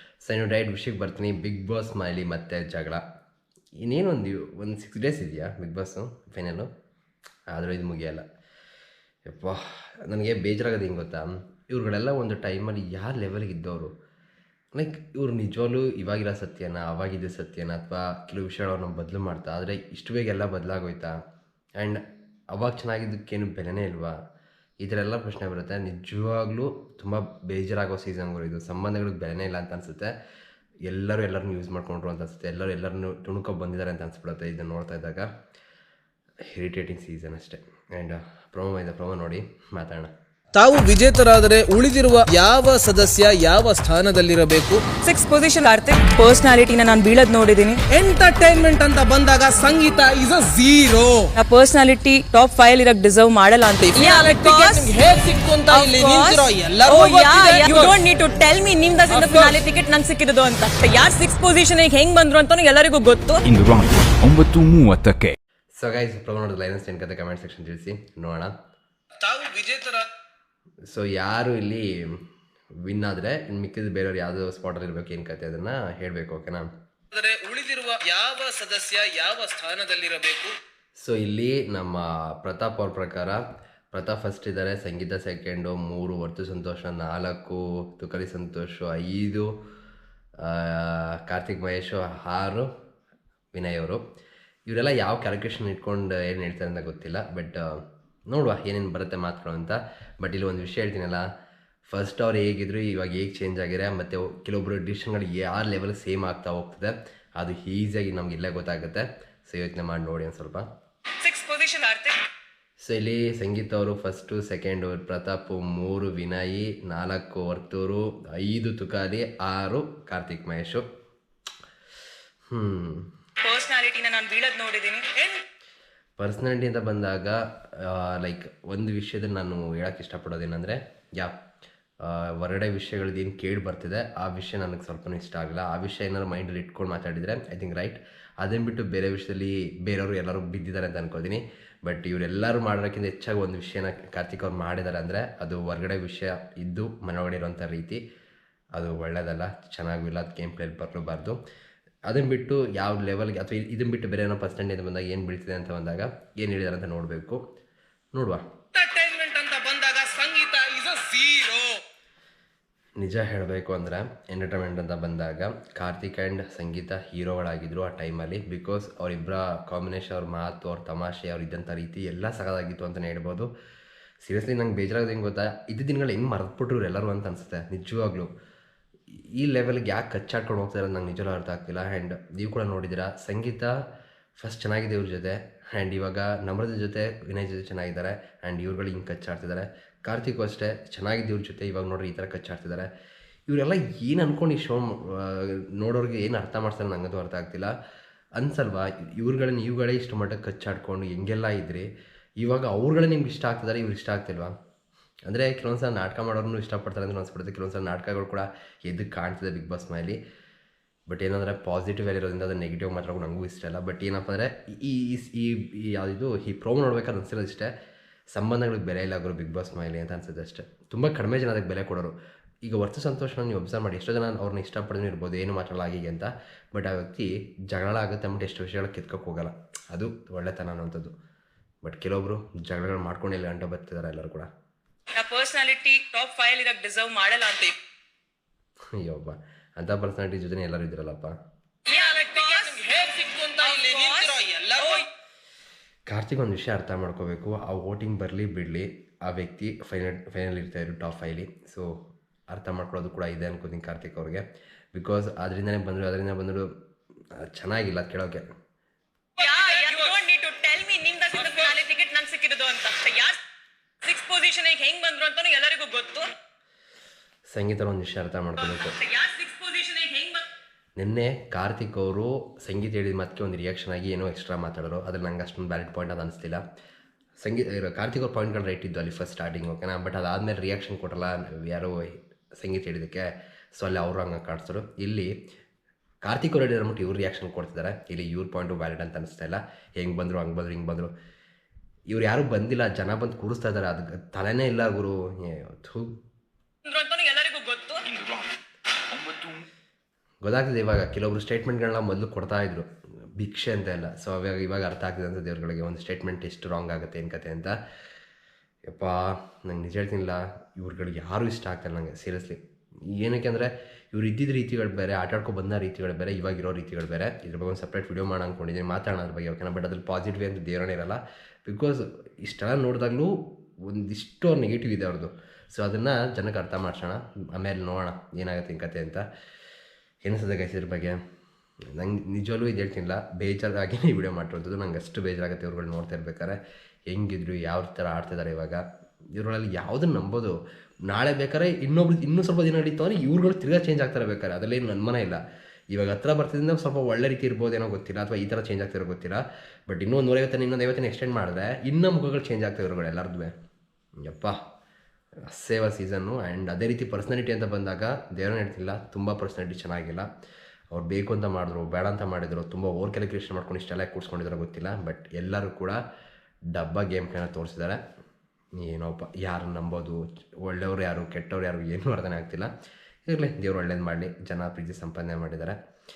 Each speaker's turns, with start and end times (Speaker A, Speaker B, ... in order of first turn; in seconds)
Speaker A: 0.2-3.0, 3.8-6.7, 7.5-8.2, 9.3-13.9, 14.7-21.2, 22.5-24.1, 24.8-30.1, 30.9-35.3, 36.5-40.1, 65.8-68.5, 70.8-72.2, 72.8-76.7, 81.0-89.5, 90.4-92.7, 93.5-94.0, 94.7-101.2, 101.8-110.7, 112.8-120.8, 122.5-123.1, 126.2-131.3, 132.0-148.0, 148.8-151.4, 152.1-157.4, 158.1-158.4, 163.0-173.5, 174.2-178.3, 179.4-183.8, 184.4-192.9, 193.5-197.7, 198.4-201.9, 202.4-204.5, 205.3-210.2, 211.1-217.7, 218.3-231.1, 231.8-234.5, 238.9-241.3, 246.1-251.9, 252.5-256.7, 257.4-258.4, 267.5-269.0, 271.0-276.6, 277.4-285.3, 286.2-291.1, 292.1-296.1, 300.4-307.8, 308.9-312.6, 313.1-329.2, 330.2-331.2, 331.9-336.6, 337.1-338.8, 339.4-340.6, 341.1-353.5, 354.2-354.6, 355.5-360.3, 360.9-366.0, 366.7-368.0, 368.8-372.7, 373.3-375.8
Speaker B: 40.5-44.8, 47.9-51.3, 53.8-58.0, 59.1-59.6, 69.2-70.1, 77.1-80.5, 158.7-161.8, 241.9-245.0, 259.4-260.1, 261.4-261.7
Speaker C: 45.0-47.8, 51.3-55.0, 55.7-63.5, 111.2-112.2, 123.4-125.4, 235.1-237.8, 241.8-243.0, 243.6-245.0, 259.4-263.4, 264.0-266.3, 268.6-270.5, 296.9-298.1
Speaker D: 63.5-65.3, 299.1-299.6